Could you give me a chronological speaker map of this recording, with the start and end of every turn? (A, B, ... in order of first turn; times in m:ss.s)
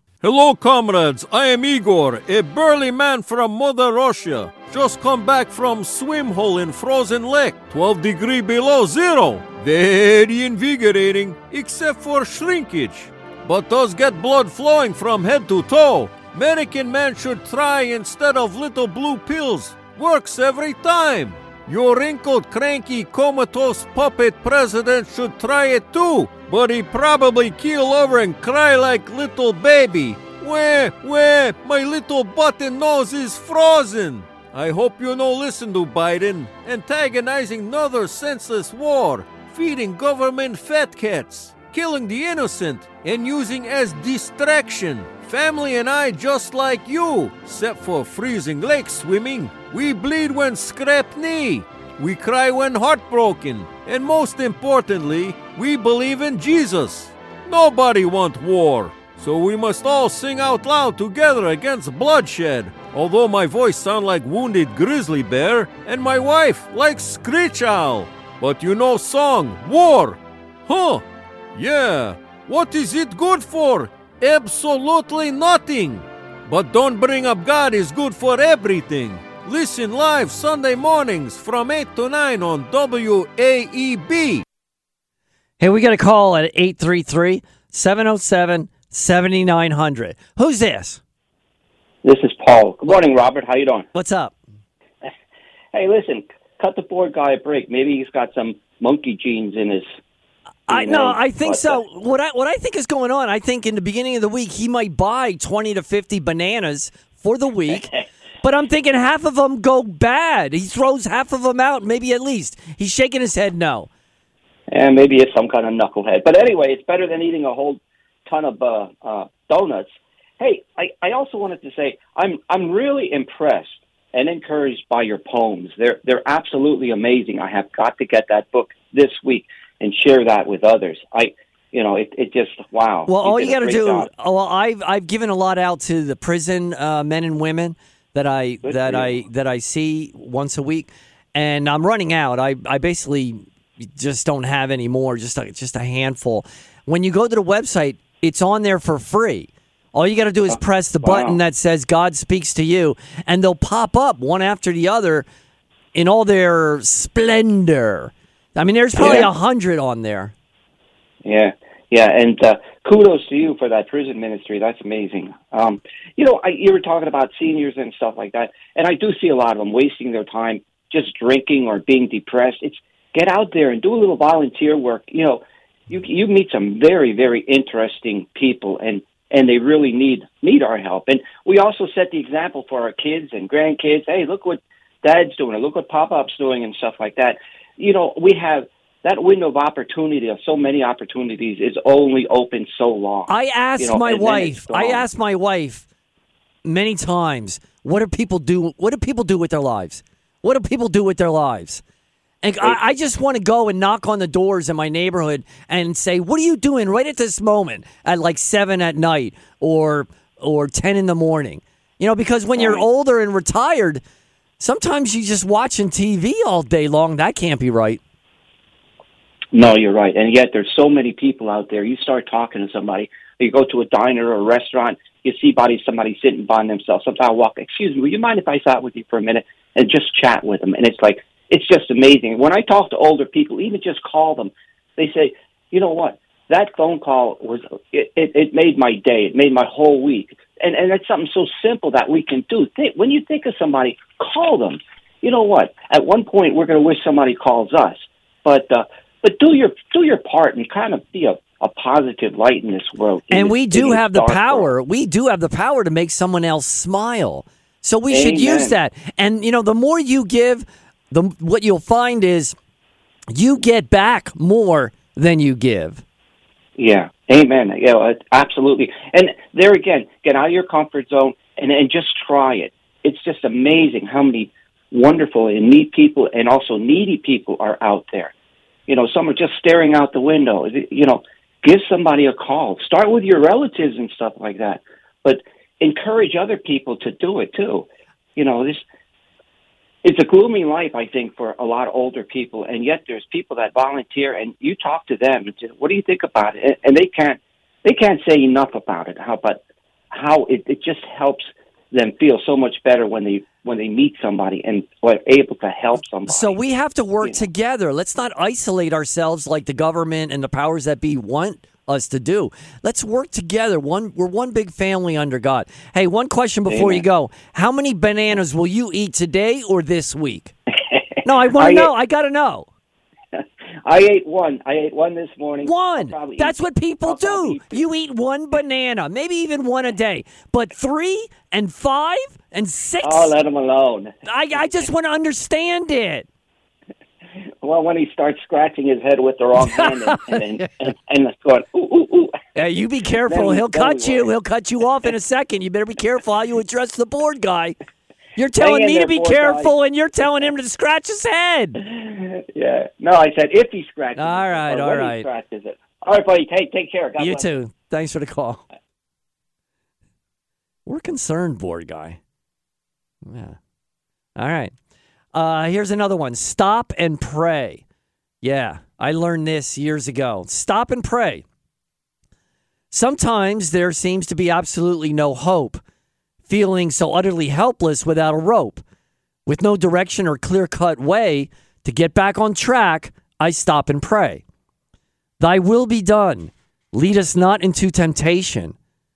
0:00.2-1:11.0 A
1:11.6-1:24.4 A
1:25.6-1:31.0 B
1:32.0-1:33.9 C
1:33.9-1:34.3 B
1:35.7-1:39.9 C
1:40.7-1:47.9 B
1:40.7-1:41.8 C
1:48.4-1:53.9 B
1:54.7-2:14.1 C
2:13.1-2:23.4 B
2:18.6-2:19.2 C
2:24.0-2:35.3 B
2:30.5-2:31.4 C
2:35.9-2:40.3 B
2:39.0-2:39.3 C
2:41.2-3:15.1 C
3:13.3-3:15.9 B
3:16.6-3:21.8 B
3:22.4-3:34.0 B
3:32.6-3:32.9 C
3:34.6-3:38.0 B
3:39.5-4:14.7 C
4:13.3-4:22.6 B
4:18.1-4:18.8 C
4:23.3-4:26.0 B
4:26.8-4:38.3 C
4:38.9-4:48.8 C
4:50.0-5:06.6 C
5:06.3-5:20.5 B
5:16.7-5:17.0 C
5:21.2-5:22.7 B
5:21.6-5:21.9 C
5:23.3-5:27.8 C
5:25.6-5:33.3 B
5:33.0-5:34.1 C
5:34.2-5:36.3 B
5:37.6-5:42.4 C
5:39.6-5:40.7 B
5:42.6-5:47.8 B
5:43.2-5:44.3 C
5:48.4-5:51.8 B
5:48.6-5:49.7 C
5:51.8-5:57.5 C
5:54.2-5:55.3 B
5:57.2-5:58.6 B
6:00.9-6:02.2 B
6:03.3-6:03.6 B
6:04.4-6:04.7 B
6:05.3-6:07.8 B
6:08.4-6:11.4 B
6:12.9-6:15.8 B
6:16.5-6:18.8 B
6:19.5-6:24.4 B
6:25.4-6:28.8 B